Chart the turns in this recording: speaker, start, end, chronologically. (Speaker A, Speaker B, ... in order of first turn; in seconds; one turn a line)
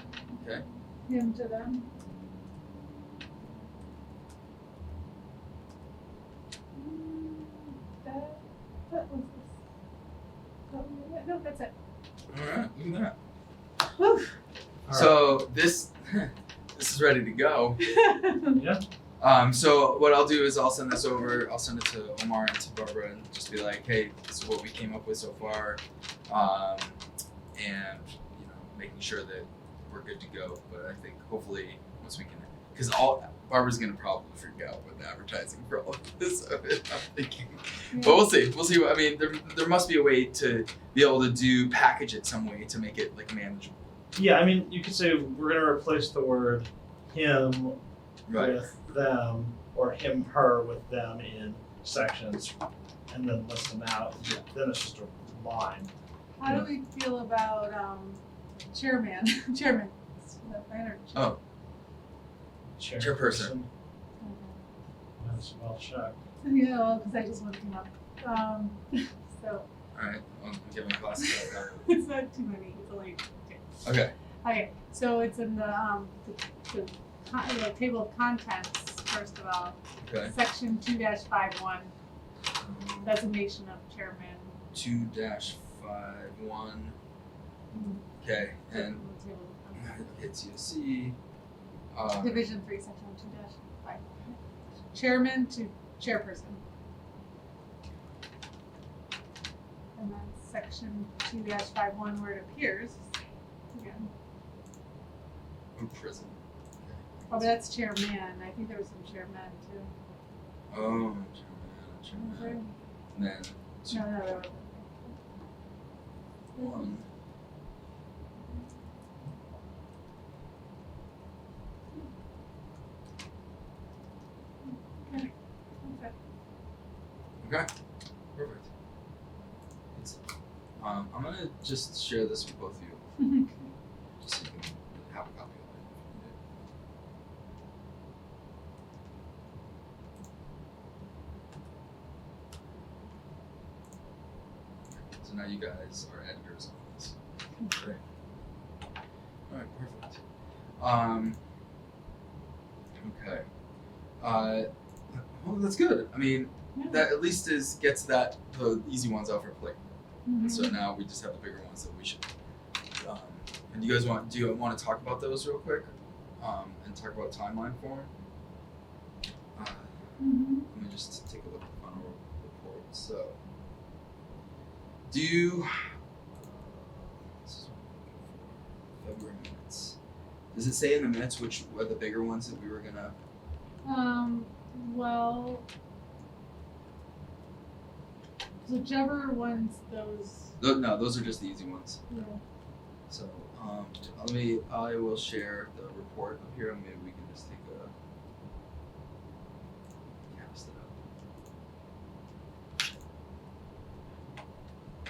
Speaker A: 0.3-0.7
Speaker B: 1.1-1.9
Speaker B: 6.8-9.5
Speaker B: 10.7-11.7
Speaker A: 12.3-13.2
Speaker B: 14.0-14.3
Speaker C: 14.9-15.2
Speaker A: 14.9-17.8
Speaker B: 17.8-18.6
Speaker C: 18.5-18.8
Speaker A: 19.2-26.9
Speaker A: 27.5-43.9
Speaker B: 37.9-38.2
Speaker C: 44.1-47.8
Speaker A: 48.3-48.5
Speaker C: 48.3-52.5
Speaker C: 53.1-55.9
Speaker B: 56.4-58.2
Speaker B: 58.7-61.4
Speaker C: 62.8-63.7
Speaker A: 63.0-63.5
Speaker B: 64.2-64.6
Speaker C: 65.2-66.2
Speaker B: 66.4-69.7
Speaker A: 70.0-71.9
Speaker B: 71.2-73.6
Speaker A: 73.8-74.1
Speaker B: 74.4-81.9
Speaker A: 80.0-80.3
Speaker B: 83.0-84.5
Speaker A: 84.7-87.0
Speaker B: 87.7-88.0
Speaker A: 88.2-89.0
Speaker B: 88.7-90.2
Speaker A: 89.8-91.2
Speaker A: 91.9-92.5
Speaker B: 92.2-96.6
Speaker B: 100.0-103.0
Speaker B: 103.7-104.1
Speaker A: 105.8-107.5
Speaker B: 107.3-109.9
Speaker A: 110.7-112.6
Speaker B: 112.1-112.7
Speaker A: 113.1-114.4
Speaker B: 113.9-115.2
Speaker B: 116.5-116.9
Speaker A: 116.6-117.1
Speaker B: 124.7-126.1
Speaker A: 127.4-127.7
Speaker A: 128.3-128.7
Speaker A: 129.9-130.2
Speaker A: 130.8-133.1
Speaker B: 133.2-133.7
Speaker A: 134.2-136.4
Speaker A: 144.9-147.2
Speaker A: 147.7-148.0
Speaker A: 149.5-150.2
Speaker A: 150.8-151.4
Speaker A: 153.0-153.4
Speaker A: 154.2-159.8
Speaker B: 156.8-157.1
Speaker B: 160.2-160.8
Speaker A: 160.4-162.2
Speaker A: 163.0-168.1
Speaker A: 169.6-169.9
Speaker B: 170.2-170.7
Speaker A: 170.7-173.4
Speaker A: 175.1-175.7
Speaker A: 176.3-180.0
Speaker A: 180.5-183.2
Speaker B: 183.8-185.7
Speaker B: 188.7-190.5
Speaker A: 190.6-192.0
Speaker B: 192.1-192.4
Speaker A: 193.1-197.9
Speaker A: 200.3-200.9